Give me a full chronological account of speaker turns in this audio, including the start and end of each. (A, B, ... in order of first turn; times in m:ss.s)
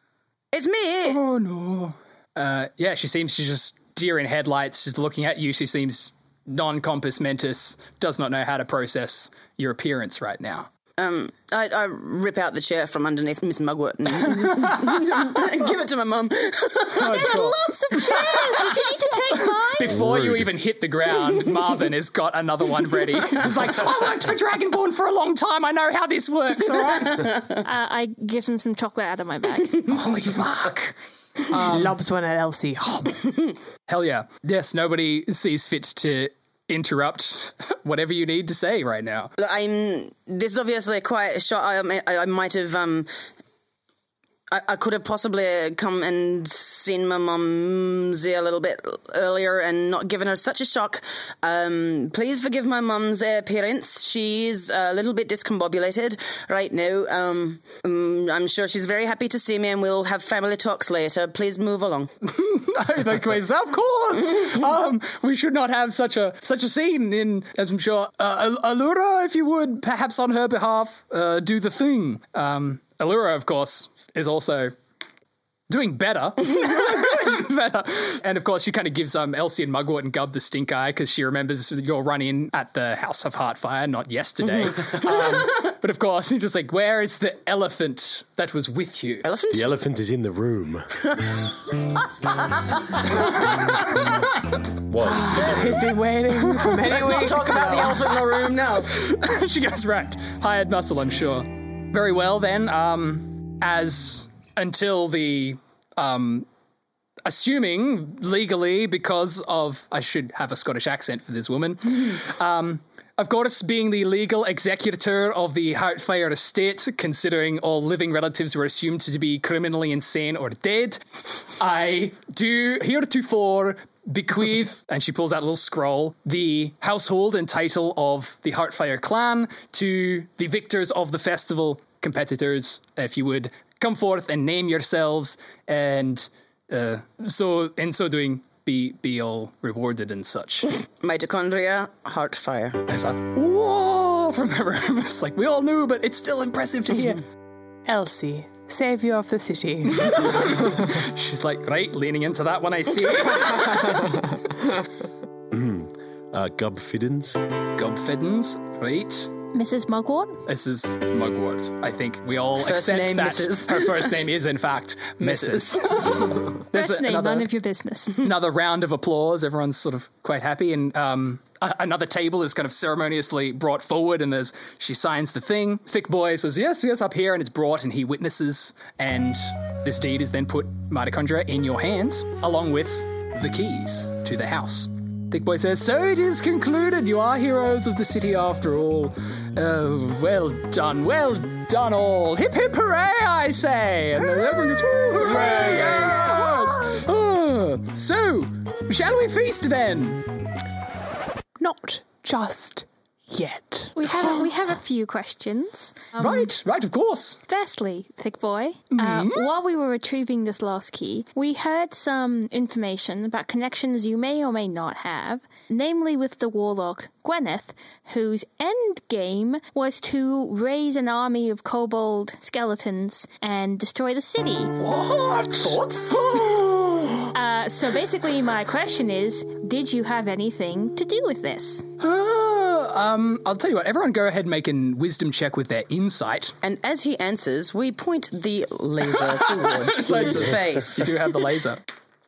0:00.5-0:01.2 A
0:01.0-0:10.7 B
0:11.0-0:17.4 A
0:16.9-0:20.0 C
0:16.9-0:17.6 B
0:19.7-0:27.5 B
0:19.9-0:20.5 D
0:27.6-0:29.9 C
0:29.8-0:32.0 B
0:31.5-0:33.5 E
0:33.9-0:39.3 B
0:39.4-0:43.1 A
0:44.5-1:02.1 A
1:02.2-1:14.7 B
1:15.7-1:29.2 B
1:29.2-1:29.7 A
1:29.5-1:31.0 D
1:34.9-1:35.9 D
1:35.0-1:38.0 E
1:36.8-1:39.0 A
1:38.5-1:46.4 B
1:47.2-2:20.7 B
2:21.0-2:22.8 A
2:22.9-2:27.2 B
2:27.8-2:30.8 E
2:29.9-2:34.3 B
2:35.5-2:37.4 D
2:37.8-2:39.3 B
2:39.5-2:40.4 C
2:40.5-2:47.5 B
2:42.6-2:44.1 A
2:45.2-2:45.8 A
2:46.7-2:48.2 C
2:48.1-3:20.2 B
3:21.6-3:24.3 E
3:24.0-3:26.5 C
3:26.2-3:27.4 B
3:27.5-3:44.8 C
3:28.9-3:29.5 B
3:44.8-3:47.3 B
3:47.3-3:51.8 C
3:52.0-3:56.6 B
3:56.6-4:01.2 A
3:59.2-4:01.8 B